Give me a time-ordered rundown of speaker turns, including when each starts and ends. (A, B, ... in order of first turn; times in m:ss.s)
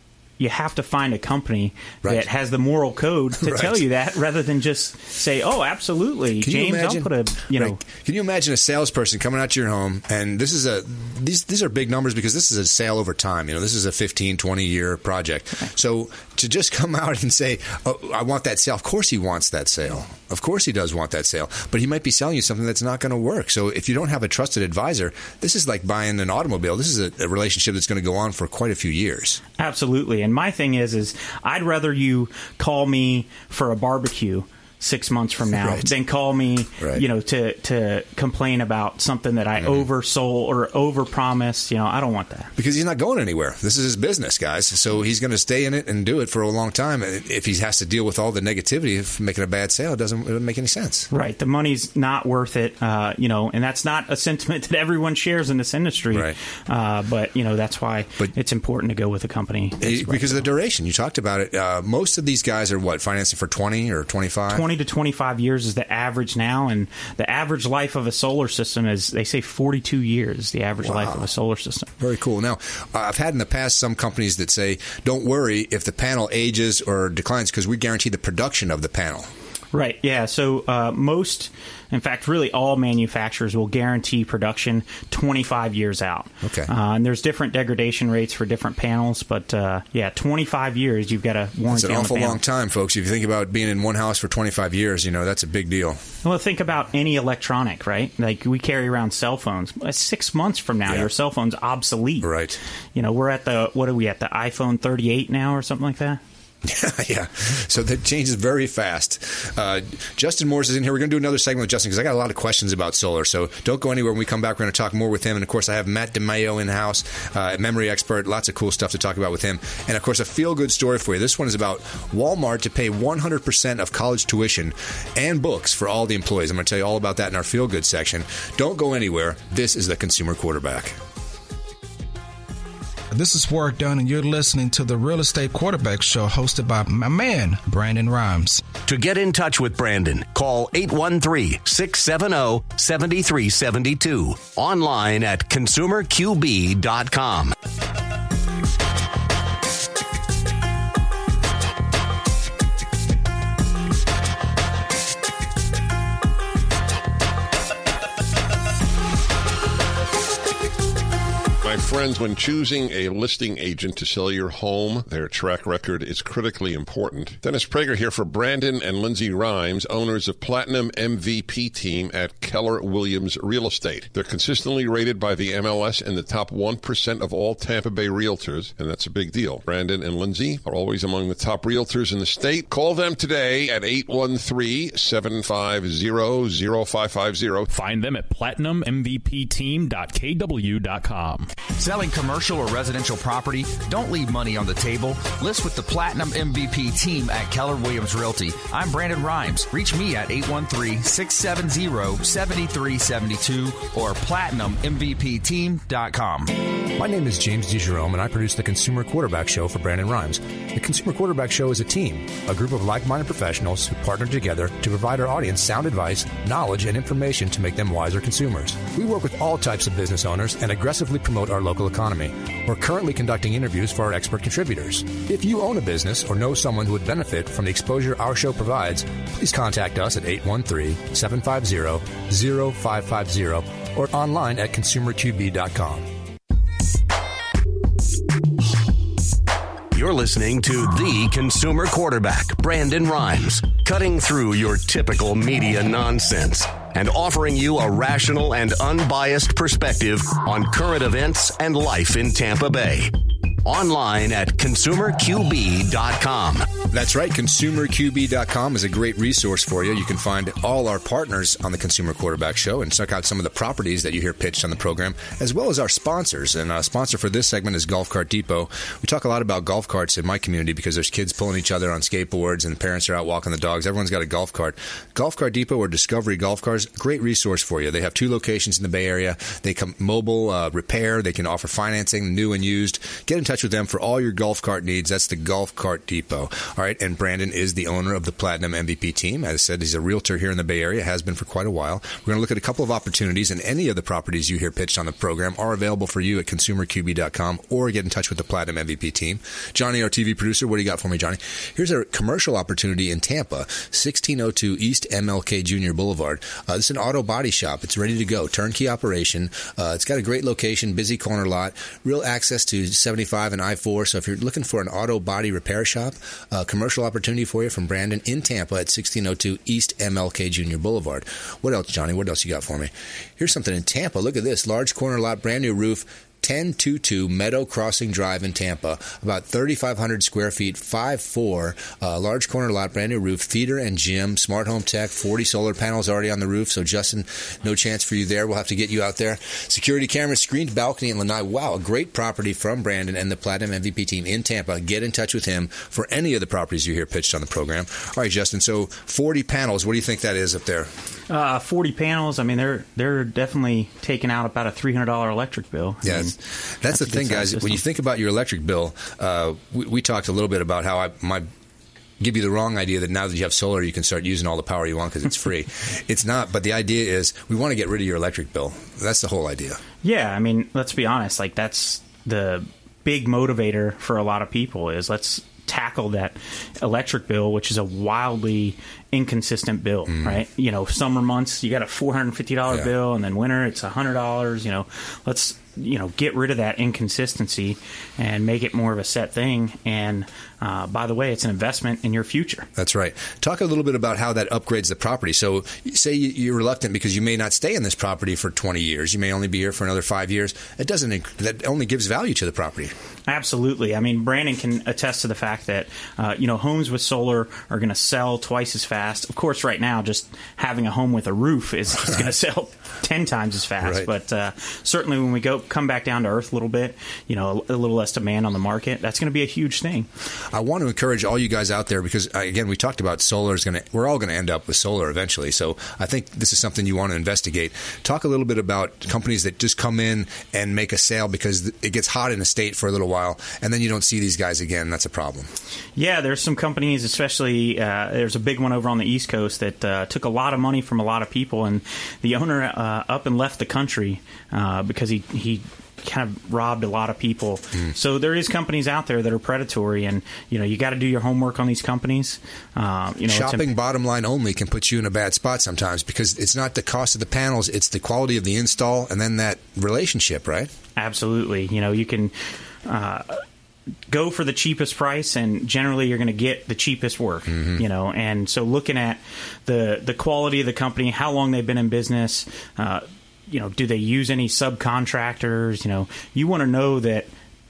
0:00.4-0:07.8 A
0:03.4-0:03.8 B
0:06.4-0:29.4 B
0:29.6-0:42.5 A
0:35.6-0:35.9 B
0:36.8-0:37.0 B
0:39.6-0:39.8 B
0:42.6-0:51.1 B
0:51.1-1:00.4 A
0:56.1-0:56.4 B
0:59.8-1:04.6 B
1:04.5-1:11.9 A
1:10.8-1:11.2 B
1:12.0-1:19.3 B
1:19.7-1:32.4 A
1:26.4-1:26.7 B
1:31.7-1:36.0 B
1:36.2-1:42.3 A
1:42.2-1:42.6 B
1:42.9-1:46.2 A
1:46.6-2:11.0 B
2:13.1-2:18.6 C
2:18.8-2:27.5 D
2:41.6-3:07.7 E
3:07.7-3:11.5 F
3:11.6-3:26.6 G
3:26.9-3:56.1 B
3:59.9-4:13.1 D
4:13.6-4:16.7 D
4:16.9-5:50.9 B
5:51.3-5:56.4 A
5:56.0-6:01.5 B
5:56.9-5:57.8 A
6:02.2-6:09.8 B
6:10.0-6:32.7 A
6:20.1-6:20.4 B
6:32.8-6:42.9 B
6:43.3-7:00.1 A
6:53.8-6:54.1 B
7:00.5-7:15.5 B
7:16.0-7:33.7 A
7:33.3-7:40.7 B
7:41.0-7:42.3 A
7:42.8-7:43.4 A
7:44.1-7:57.3 A
7:47.5-7:47.8 B